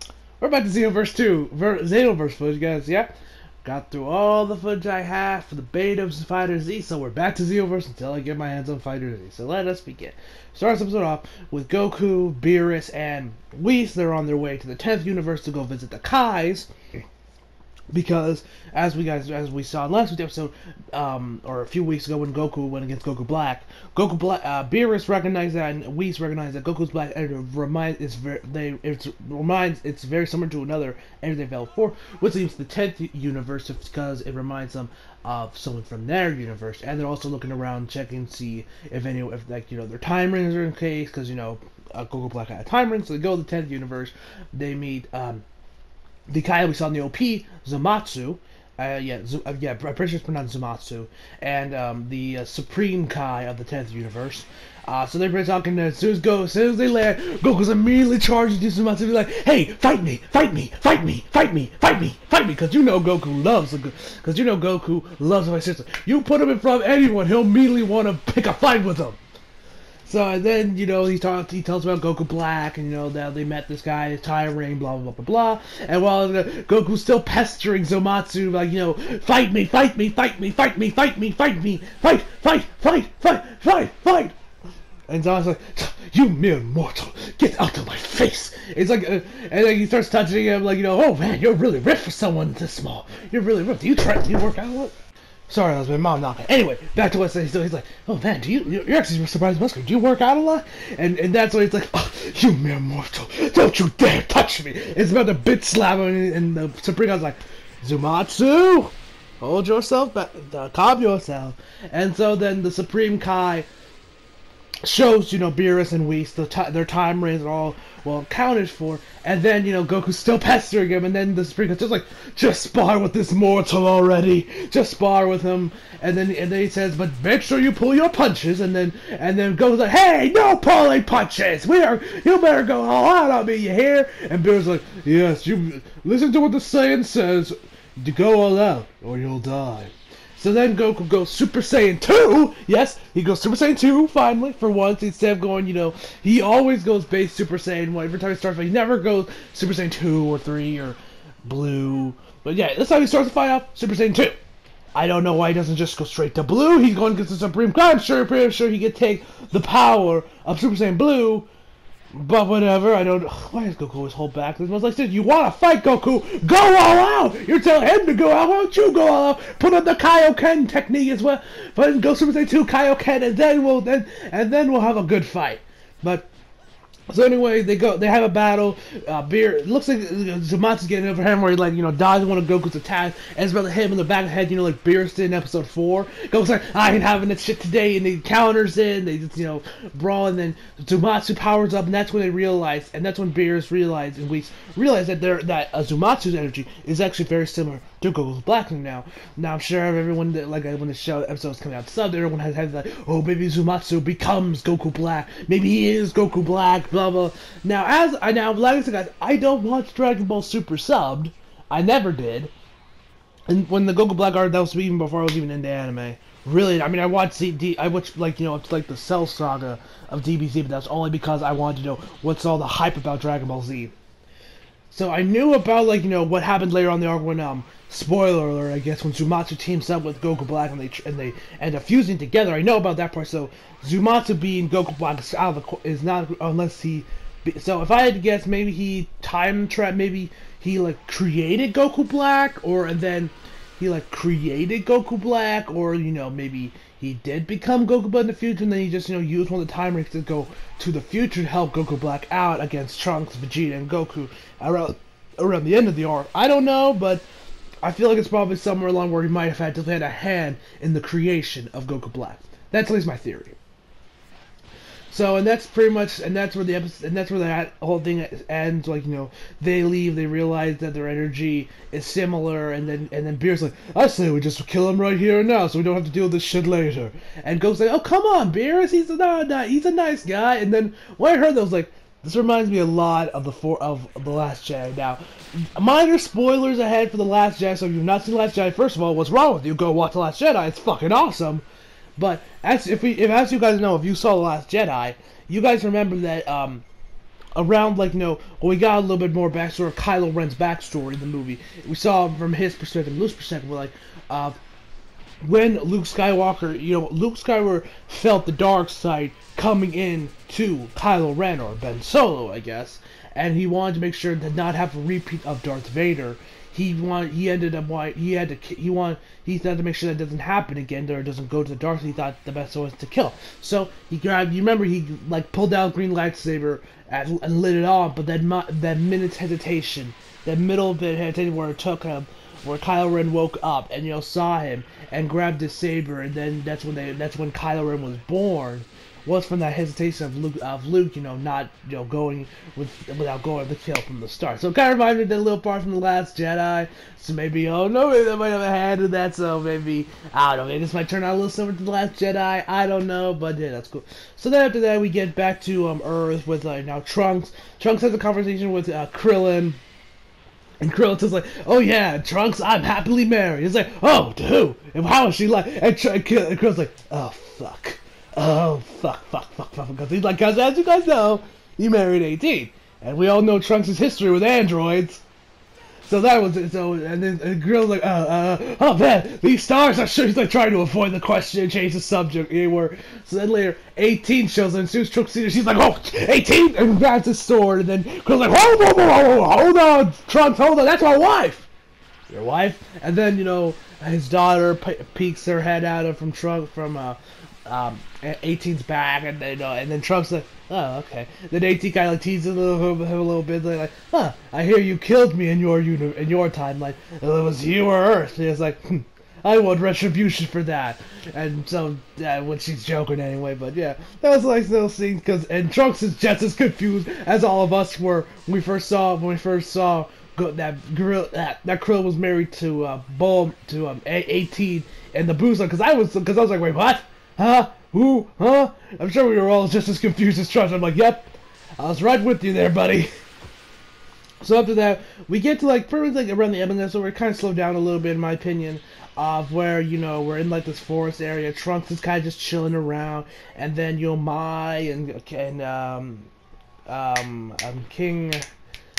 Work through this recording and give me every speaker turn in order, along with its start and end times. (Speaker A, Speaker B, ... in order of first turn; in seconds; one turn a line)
Speaker A: 0.4-3.1
Speaker A: 3.6-16.7
Speaker A: 17.9-45.4
Speaker A: 46.3-69.2
Speaker A: 70.1-84.4
Speaker A: 85.1-94.9
Speaker A: 95.5-113.7
Speaker A: 114.8-154.4
Speaker A: 154.9-161.5
Speaker A: 162.1-176.3
Speaker A: 177.1-212.5
Speaker A: 213.5-223.9
Speaker A: 224.9-257.2
Speaker A: 257.8-263.6
Speaker A: 265.1-291.6
Speaker A: 292.2-296.9
Speaker A: 297.6-304.6
Speaker A: 305.4-359.8
Speaker A: 360.8-375.2
Speaker A: 376.1-391.7
Speaker A: 392.3-433.1
Speaker A: 434.4-446.3
Speaker A: 446.9-448.4